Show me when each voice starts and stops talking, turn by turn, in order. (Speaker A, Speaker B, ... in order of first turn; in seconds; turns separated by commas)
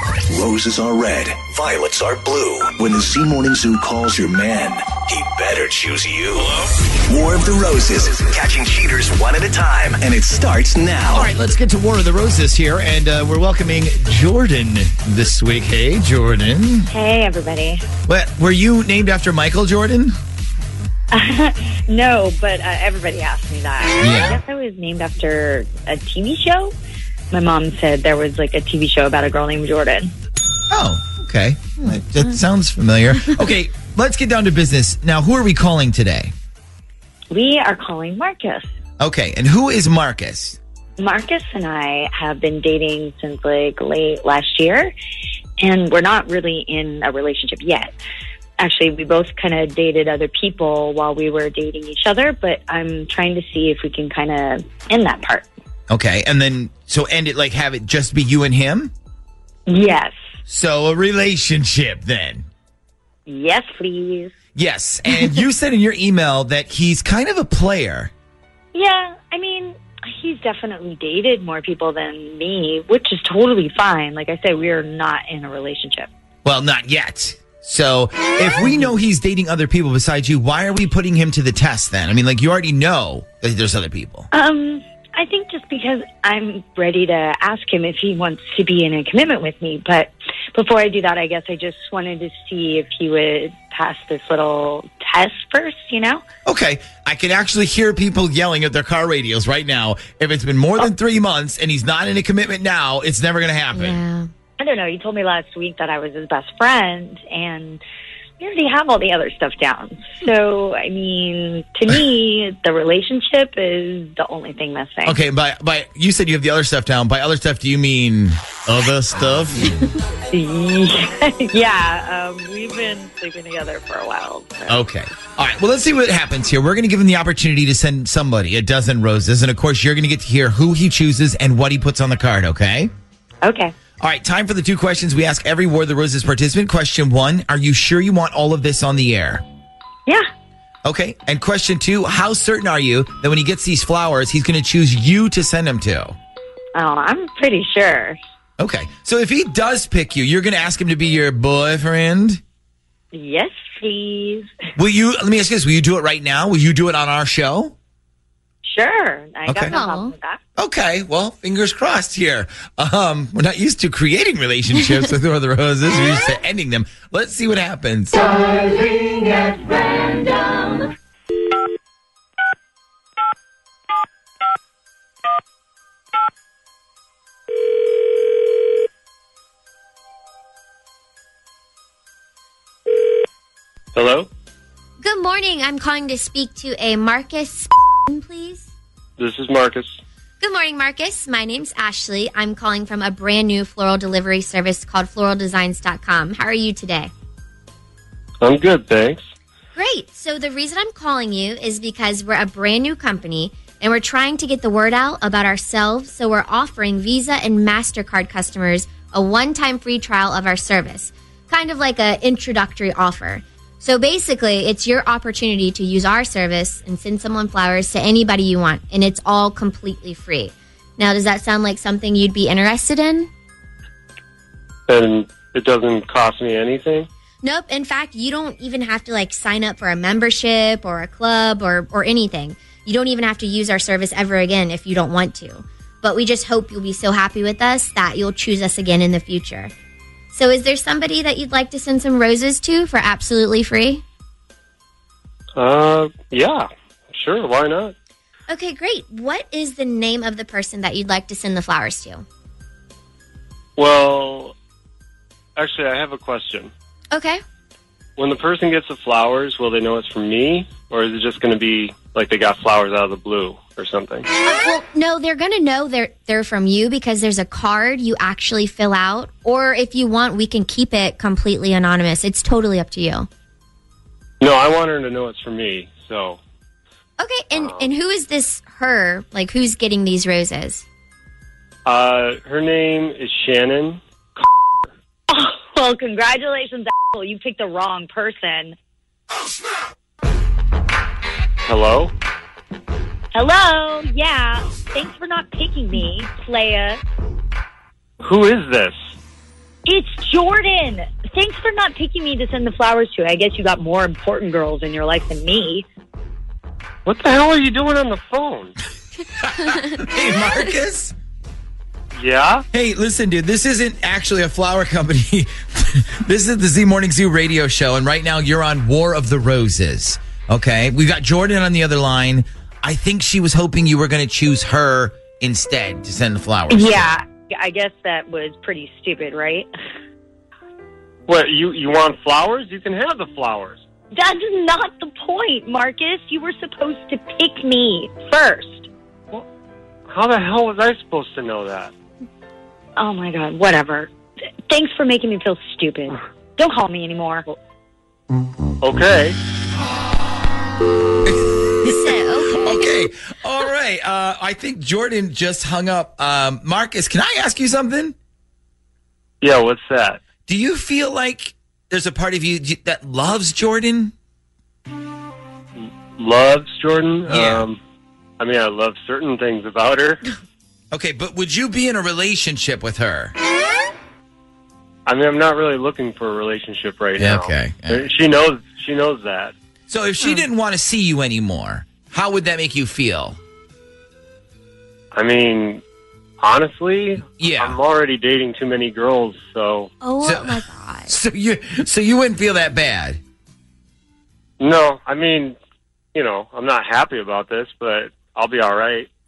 Speaker A: 0.2-11.3, Speaker B: 11.1-16.9, Speaker C: 16.9-17.8, Speaker B: 18.1-20.2, Speaker C: 21.1-26.7, Speaker B: 24.0-24.4, Speaker C: 27.3-30.1, Speaker B: 30.7-36.3, Speaker C: 37.3-38.6, Speaker B: 39.0-40.6, Speaker C: 41.0-44.9, Speaker C: 45.6-47.9, Speaker C: 48.6-55.5, Speaker B: 55.9-58.9, Speaker C: 59.7-60.1, Speaker B: 60.5-62.5, Speaker C: 63.3-64.3, Speaker B: 64.5-68.1, Speaker C: 68.7-76.1, Speaker B: 76.4-84.3, Speaker C: 84.3-96.2, Speaker B: 96.4-104.0, Speaker D: 103.7-104.3, Speaker C: 104.6-107.8, Speaker C: 108.4-115.2, Speaker B: 115.0-119.8, Speaker C: 120.3-124.8, Speaker B: 124.7-132.9, Speaker C: 133.4-133.7, Speaker B: 134.0-139.4, Speaker B: 140.8-146.2, Speaker C: 146.7-148.2, Speaker B: 148.6-152.4, Speaker C: 153.1-154.5, Speaker B: 154.7-157.7, Speaker C: 158.6-160.4, Speaker B: 159.5-159.7, Speaker D: 159.7-160.1, Speaker B: 160.6-168.6, Speaker E: 183.9-184.2, Speaker D: 185.0-188.7, Speaker E: 189.2-189.8, Speaker D: 190.4-197.1, Speaker E: 198.4-199.2, Speaker D: 199.8-223.3, Speaker E: 224.9-227.1, Speaker D: 227.4-239.7, Speaker D: 240.3-244.0, Speaker E: 245.6-247.9, Speaker D: 248.5-252.2, Speaker E: 253.8-254.5, Speaker E: 255.6-256.7, Speaker D: 257.1-257.4, Speaker E: 258.2-264.2, Speaker D: 264.4-273.3, Speaker E: 274.4-276.4, Speaker D: 277.2-280.8, Speaker E: 277.6-277.9, Speaker E: 281.9-284.0, Speaker C: 285.3-288.7, Speaker E: 291.7-292.1, Speaker C: 293.3-297.0, Speaker E: 298.2-298.9, Speaker C: 299.9-305.8, Speaker E: 307.0-308.7, Speaker B: 309.3-311.1, Speaker E: 312.1-312.6, Speaker B: 312.7-327.1, Speaker C: 326.7-329.7, Speaker E: 331.3-333.8, Speaker C: 334.1-338.9, Speaker E: 340.1-341.9, Speaker C: 343.0-344.1, Speaker C: 344.7-347.5, Speaker E: 348.8-349.4, Speaker B: 351.2-358.1, Speaker D: 351.8-353.0, Speaker E: 359.4-360.2, Speaker B: 360.4-364.1, Speaker E: 366.2-367.8, Speaker B: 367.3-367.6, Speaker E: 368.4-370.2, Speaker B: 370.9-373.4, Speaker E: 375.1-379.5, Speaker B: 377.2-378.1, Speaker B: 379.9-383.4, Speaker E: 385.1-385.8, Speaker E: 386.4-389.9, Speaker B: 387.4-387.8, Speaker D: 390.0-391.1, Speaker B: 390.2-393.2, Speaker E: 394.6-395.5, Speaker E: 396.1-399.1